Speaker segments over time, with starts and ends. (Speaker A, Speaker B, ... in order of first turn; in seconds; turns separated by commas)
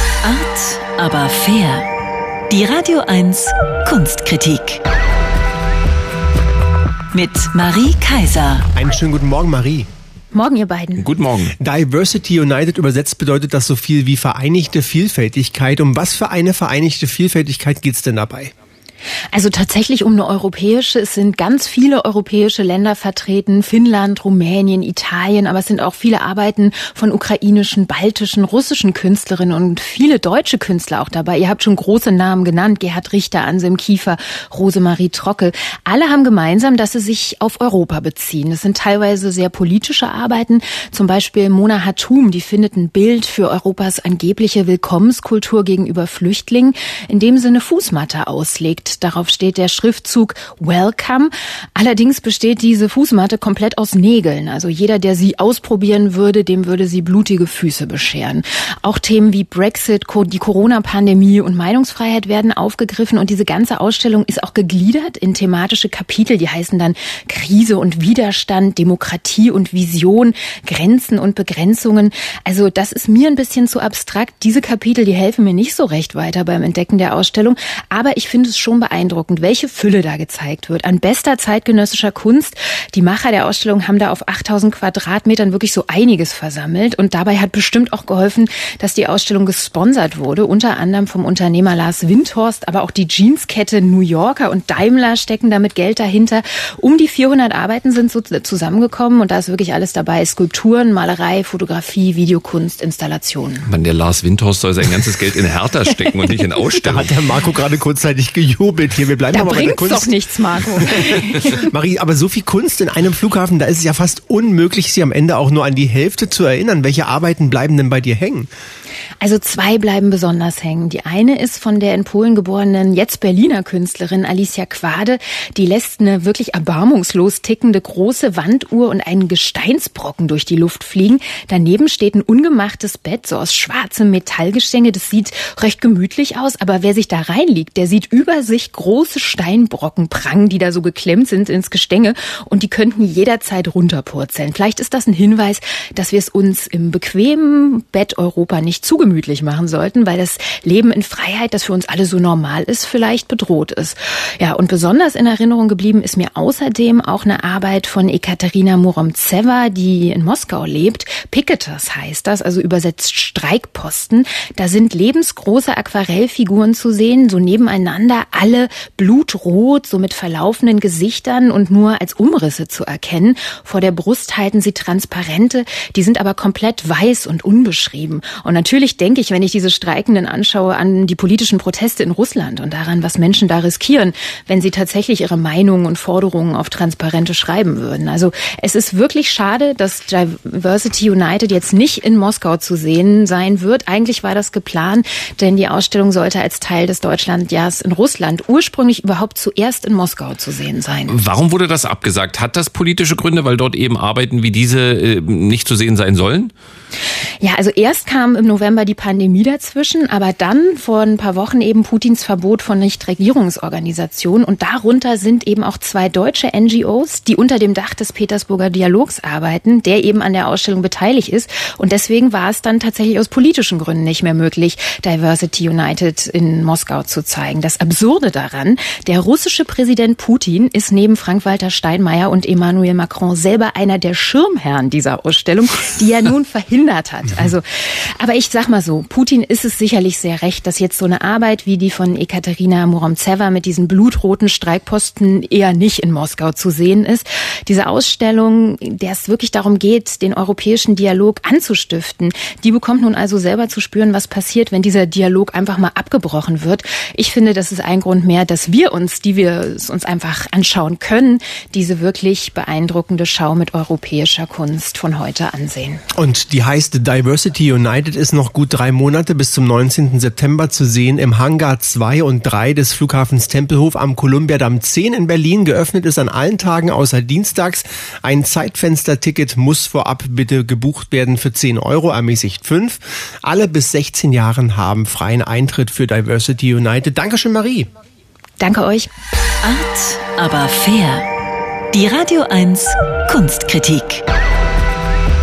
Speaker A: 0.2-1.9, Speaker A: 2.5-4.8, Speaker A: 7.1-8.7, Speaker B: 8.8-9.9, Speaker C: 10.3-11.1, Speaker D: 11.0-11.5, Speaker B: 11.6-18.5, Speaker C: 19.3-103.7, Speaker D: 103.7-107.1, Speaker B: 106.8-110.1, Speaker C: 109.3-111.7, Speaker B: 111.5-118.5, Speaker C: 119.2-201.2, Speaker D: 201.1-206.5, Speaker C: 207.4-266.0, Speaker B: 266.1-287.9, Speaker C: 288.6-289.1, Speaker A: 289.6-291.3, Speaker A: 291.9-294.2